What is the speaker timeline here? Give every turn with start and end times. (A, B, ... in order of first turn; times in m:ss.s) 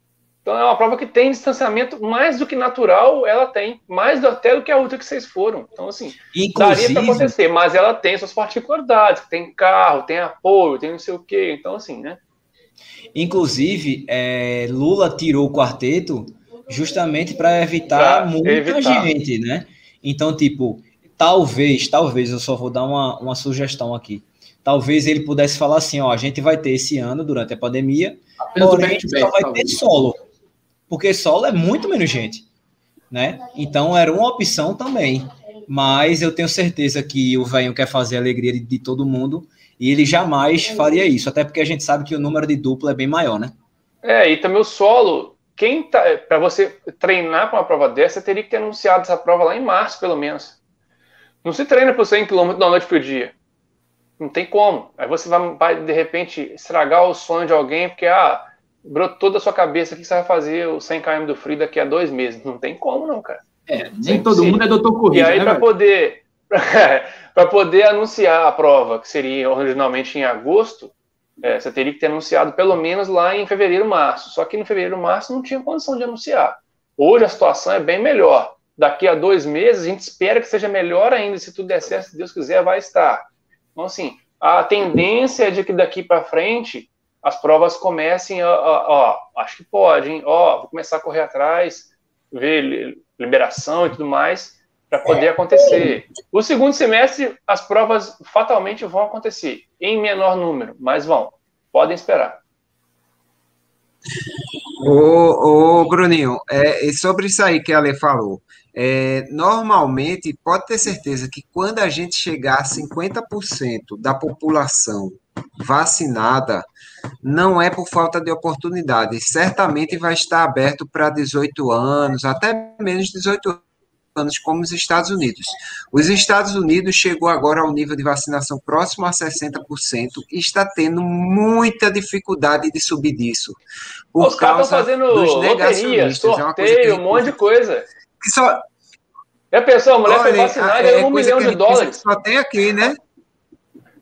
0:00.4-0:12.2 A
0:06.3-0:07.4 B
0:13.2-0:30.2 B
0:18.0-0:19.1 A
0:28.6-0:29.8 C
0:30.9-0:32.5 B
0:33.1-0:43.5 B
0:44.0-0:50.6 A
0:51.4-0:53.3 A
0:54.2-1:03.4 A
1:03.7-1:05.7 C
1:04.0-1:42.4 A
1:44.8-1:56.7 D
1:57.2-2:13.6 D
2:14.1-2:17.4 D
2:14.2-2:17.9 A
2:18.2-2:18.6 D
2:19.5-2:22.0 A
2:20.0-2:23.0 D